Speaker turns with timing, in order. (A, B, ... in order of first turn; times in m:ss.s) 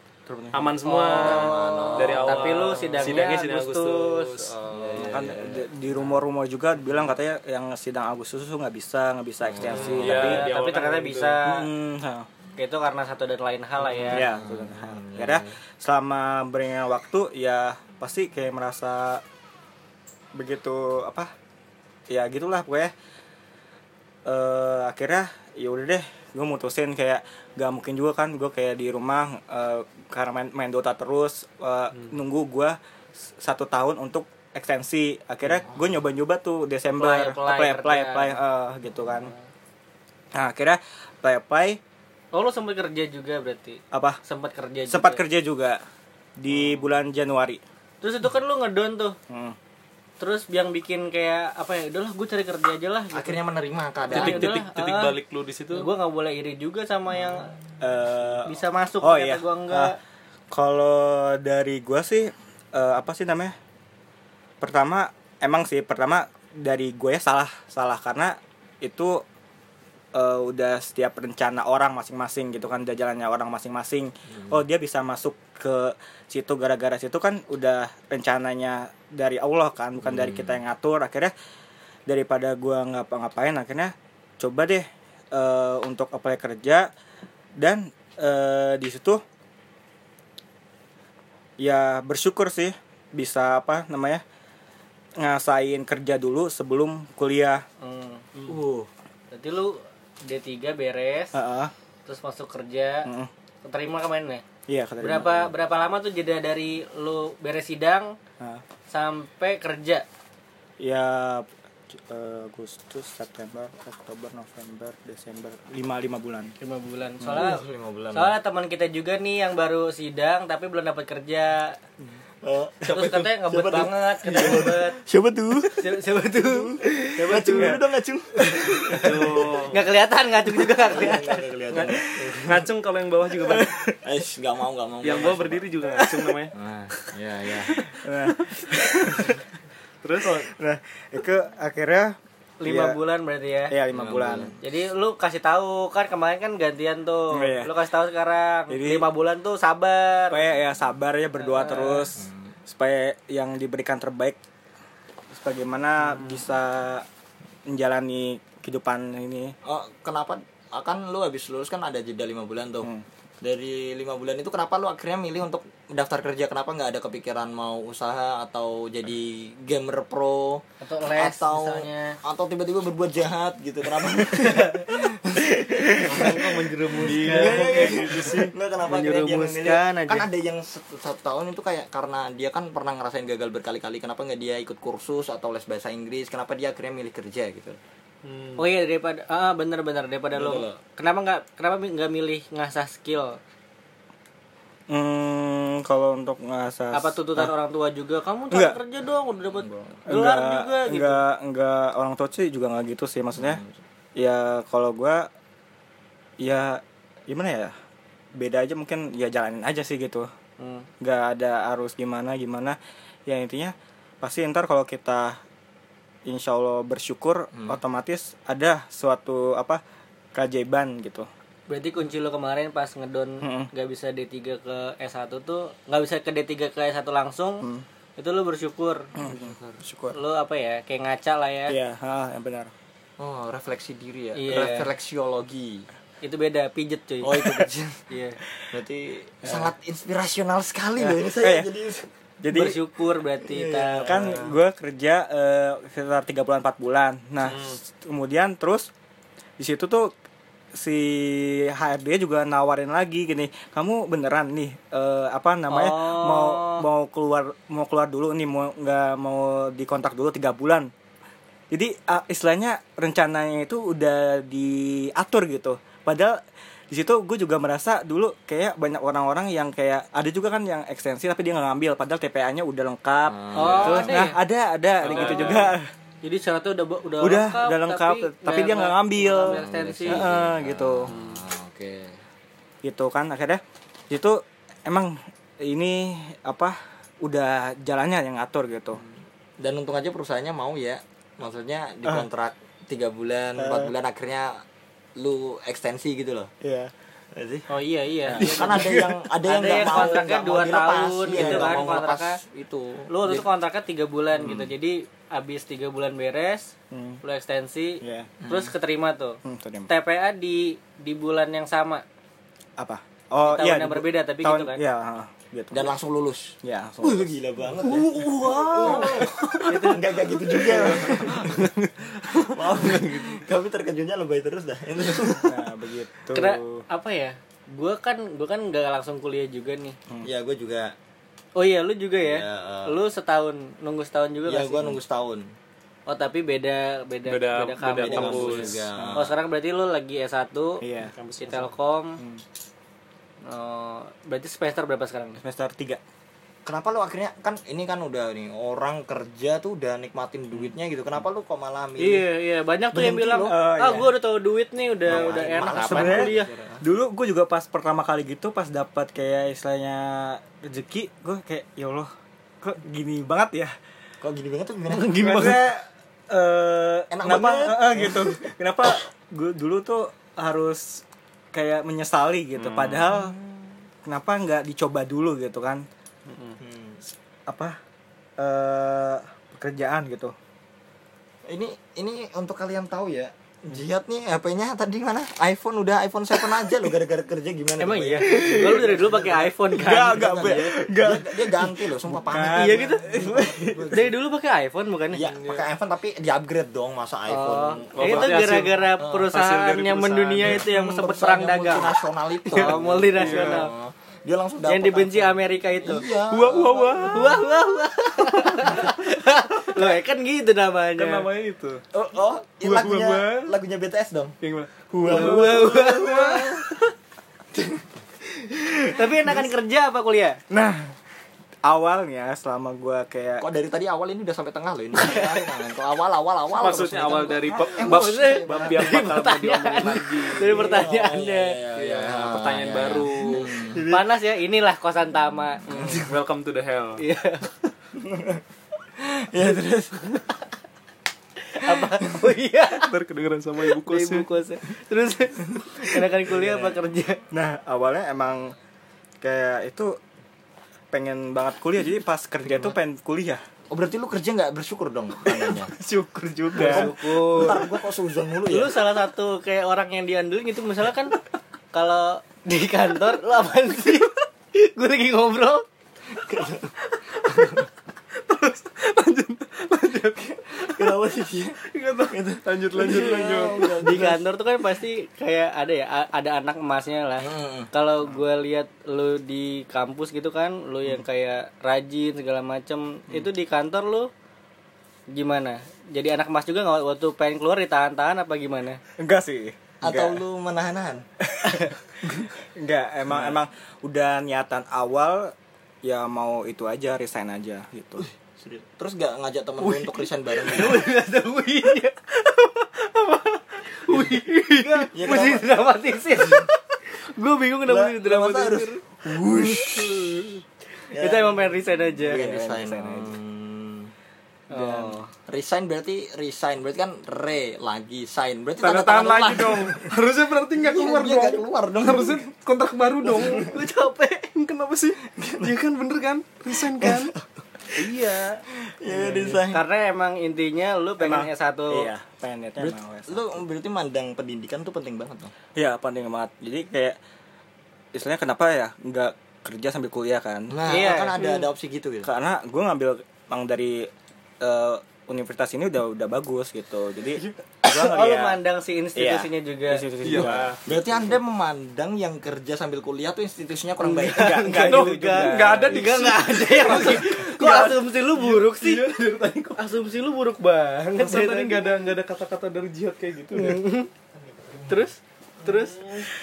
0:00.3-0:00.7 A
0:00.5-0:05.3 B
0:00.8-0:04.5 C
0:01.1-0:02.6 D
0:04.7-0:06.2 D
0:05.0-0:10.5 A
0:09.4-0:10.3 D
0:09.6-0:11.4 B
0:10.0-0:11.6 C
0:11.4-0:12.3 A
0:12.6-0:14.2 C
0:14.0-0:15.6 D
0:14.1-0:19.2 A
0:20.3-0:21.3 A
0:22.1-0:22.9 A
0:24.2-0:39.3 A
0:35.5-0:35.9 D
0:36.9-0:38.4 C
0:40.3-0:41.8 A
0:42.3-0:45.2 C
0:43.9-0:44.2 A
0:44.9-0:45.8 A
0:46.4-0:47.6 A
0:48.0-0:49.2 C
0:49.3-0:49.6 A
0:50.2-0:53.4 C
0:53.1-0:54.5 D
0:54.1-0:55.2 C
0:54.1-0:55.9 B
0:55.7-0:57.5 C
0:57.8-0:59.9 A
0:58.4-1:00.0 C
1:00.5-1:03.5 A
1:04.6-1:09.2 A
1:10.1-1:21.3 A
1:14.3-1:14.6 D
1:20.0-1:20.6 D
1:22.1-1:26.9 A
1:27.6-1:29.2 A
1:31.6-1:34.2 A
1:35.2-1:37.6 A
1:37.8-1:38.3 C
1:38.4-1:38.9 D
1:39.3-1:41.4 C
1:41.3-1:41.7 A
1:42.0-1:43.1 C
1:43.0-1:43.3 A
1:43.6-1:44.4 C
1:44.7-1:45.5 A
1:45.0-1:48.1 C
1:48.9-1:50.0 C
1:50.8-1:56.5 A
1:56.6-2:01.8 C
1:57.2-1:57.5 A
1:57.2-1:58.3 D
2:02.4-2:09.5 D
2:02.8-2:05.0 C
2:05.7-2:07.8 C
2:07.5-2:07.8 A
2:08.4-2:11.5 C
2:08.9-2:09.8 B
2:10.7-2:12.7 D
2:11.7-2:13.7 B
2:13.5-2:13.8 A
2:14.0-2:15.7 D
2:15.0-2:16.5 B
2:16.5-2:17.8 D
2:17.9-2:19.4 A
2:18.4-2:19.1 B
2:20.0-2:20.4 B
2:20.4-2:23.0 A
2:22.6-2:23.7 C
2:23.7-2:24.5 A
2:23.9-2:24.6 D
2:24.6-2:30.4 C
2:27.3-2:27.7 A
2:28.7-2:29.0 A
2:30.3-2:34.4 A
2:31.4-2:32.1 C
2:32.1-2:32.6 D
2:35.3-2:37.0 A
2:37.7-2:39.5 A
2:39.6-2:42.9 D
2:43.4-3:07.8 D
2:50.8-2:52.2 C
2:54.3-2:55.0 C
2:55.9-2:58.3 C
2:57.0-2:58.5 B
2:57.9-2:58.3 A
2:58.8-3:00.3 C
3:08.2-3:08.6 B
3:08.6-3:13.4 C
3:10.3-3:10.8 D
3:14.9-3:17.5 A
3:16.9-3:21.2 C
3:18.5-3:18.8 A
3:19.6-3:20.0 D
3:20.1-3:23.6 A
3:23.3-3:23.7 D
3:24.2-3:25.3 A
3:26.4-3:27.7 A
3:28.4-3:30.3 A
3:30.6-3:30.9 C
3:31.0-3:35.4 A
3:36.2-3:39.8 A
3:37.5-3:37.8 D
3:40.3-3:41.3 A
3:41.7-3:47.6 C
3:43.4-3:43.7 A
3:48.2-3:49.1 C
3:49.1-3:50.2 A
3:49.2-3:49.8 D
3:50.1-3:51.8 C
3:51.7-3:52.7 A
3:53.2-3:55.9 D
3:54.3-3:54.9 C
3:56.2-3:58.4 C
3:57.2-3:58.0 D
3:58.7-4:02.1 D
4:01.1-4:01.7 A
4:02.4-4:02.8 A
4:02.5-4:04.3 C
4:03.4-4:04.5 D
4:04.0-4:08.9 A
4:07.4-4:07.8 B
4:09.6-4:10.1 A
4:10.7-4:20.9 A
4:15.7-4:16.8 C
4:21.7-4:26.4 A
4:26.9-4:35.9 A
4:33.3-4:34.2 D
4:33.5-4:34.4 C
4:35.0-4:35.7 B
4:36.2-4:40.3 C
4:37.2-4:41.1 A
4:39.4-4:42.2 D
4:41.1-4:41.4 B
4:42.8-4:49.0 A
4:49.0-4:54.6 D
4:53.6-4:53.9 A
4:55.2-4:56.5 D
4:56.6-4:56.9 A
4:57.3-4:57.7 D
4:57.7-4:58.9 C
4:58.3-4:58.8 A
4:58.4-5:03.5 D
4:58.5-4:59.2 B
4:59.4-5:02.4 C
4:59.6-5:00.3 A
5:01.3-5:01.9 A
5:03.1-5:12.0 C
5:04.4-5:04.7 D
5:06.9-5:07.2 A
5:08.0-5:08.3 A
5:08.4-5:08.7 D
5:09.4-5:09.9 A
5:12.8-5:15.9 A
5:13.4-5:14.8 C
5:15.7-5:21.6 D
5:16.6-5:17.3 A
5:17.8-5:19.9 B
5:18.8-5:19.3 A
5:18.8-5:20.0 C
5:20.5-5:23.3 B
5:22.4-5:25.6 D
5:25.4-5:26.8 A
5:26.3-5:30.0 C
5:30.2-5:30.9 D
5:31.6-5:34.9 C
5:32.2-5:33.0 D
5:34.5-5:35.5 D
5:36.1-5:40.8 C
5:37.2-5:38.8 B
5:38.0-5:39.4 D
5:38.9-5:39.3 A
5:40.8-5:41.1 A
5:41.1-5:41.7 B
5:41.4-5:42.2 C
5:43.4-5:45.4 C
5:45.4-5:46.0 A
5:46.6-5:52.2 D
5:52.0-5:56.5 C
5:52.9-5:54.1 A
5:55.1-5:56.8 D
5:55.1-6:02.1 A
6:02.6-6:03.7 A
6:04.2-6:05.5 D
6:04.9-6:05.5 C
6:05.1-6:13.3 A
6:07.1-6:08.5 D
6:12.6-6:13.1 B
6:13.1-6:13.7 D
6:14.0-6:15.8 A
6:16.3-6:16.6 B
6:16.6-6:17.0 D
6:17.5-6:17.7 A
6:18.4-6:20.3 A
6:21.4-6:34.0 D
6:27.8-6:30.7 C
6:28.4-6:28.8 A
6:29.8-6:34.1 A
6:32.4-6:33.1 C
6:33.8-6:35.2 C
6:35.1-6:38.4 D
6:35.2-6:35.7 B
6:37.3-6:43.7 C
6:38.0-6:40.7 B
6:39.0-6:39.3 D
6:40.4-6:47.1 D
6:42.6-6:43.7 B
6:44.6-6:46.1 C
6:46.3-6:47.5 B
6:47.0-6:51.3 C
6:51.0-6:51.8 B
6:51.9-6:54.3 D
6:52.6-6:53.6 B
6:54.4-6:56.9 B
6:54.9-6:56.7 D
6:55.1-6:56.1 C
6:57.5-6:57.8 D
6:58.9-7:00.4 C
7:00.5-7:00.9 A
7:01.6-7:03.4 A
7:03.4-7:09.1 D
7:05.0-7:05.4 C
7:06.6-7:10.9 B
7:07.8-7:11.6 C
7:10.4-7:14.0 D
7:11.8-7:13.8 B
7:13.8-7:15.6 C
7:15.6-7:16.1 D
7:15.6-7:17.0 B
7:17.0-7:17.5 C
7:18.0-7:18.4 D
7:19.0-7:20.3 D
7:21.5-7:22.9 C
7:21.8-7:22.2 D
7:22.7-7:24.3 B
7:23.8-7:27.2 C
7:26.3-7:26.7 D
7:27.3-7:28.5 A
7:29.2-7:30.0 A
7:30.9-7:33.4 A
7:33.7-7:35.7 D
7:35.9-7:36.9 A
7:36.0-7:36.8 B
7:36.6-7:37.6 C
7:36.6-7:38.8 D
7:38.5-7:41.2 C
7:41.7-7:45.6 C
7:46.1-7:46.7 D
7:47.0-7:47.6 B
7:48.2-7:51.0 B
7:50.5-7:54.2 D
7:51.6-7:53.9 B
7:53.8-8:04.1 C
7:57.2-7:57.7 D
8:05.1-8:08.8 C
8:09.0-8:10.2 A
8:09.8-8:11.0 D
8:11.2-8:15.3 A
8:15.8-8:18.0 A
8:18.0-8:20.9 D
8:19.6-8:28.8 C
8:24.9-8:25.5 D
8:27.6-8:30.0 D
8:29.5-8:30.2 B
8:30.9-8:33.9 D
8:31.0-8:32.4 C
8:32.1-8:33.2 A
8:34.5-8:35.1 C
8:34.5-8:39.9 D
8:38.6-8:43.6 B
8:40.6-8:42.2 D
8:43.0-8:43.5 D
8:43.3-8:44.3 C
8:44.3-8:47.1 B
8:45.2-8:45.5 D
8:46.8-8:47.2 D
8:47.7-8:48.4 B
8:48.6-8:49.6 D
8:48.9-8:49.4 B
8:49.5-8:51.9 C
8:51.0-8:53.4 A
8:52.6-8:55.3 D
8:55.5-8:57.0 A
8:57.9-9:00.6 A
9:00.5-9:02.1 D
9:00.6-9:01.2 C
9:02.0-9:03.9 A
9:04.4-9:08.4 A
9:07.6-9:09.9 C
9:08.9-9:10.8 A
9:10.0-9:10.6 B
9:10.6-9:14.4 D
9:13.8-9:18.8 C
9:14.1-9:15.9 A
9:14.6-9:19.6 B
9:19.6-9:21.7 C
9:21.0-9:23.6 B
9:23.3-9:23.9 C
9:24.2-9:24.9 D
9:24.7-9:25.8 C
9:25.8-9:26.0 B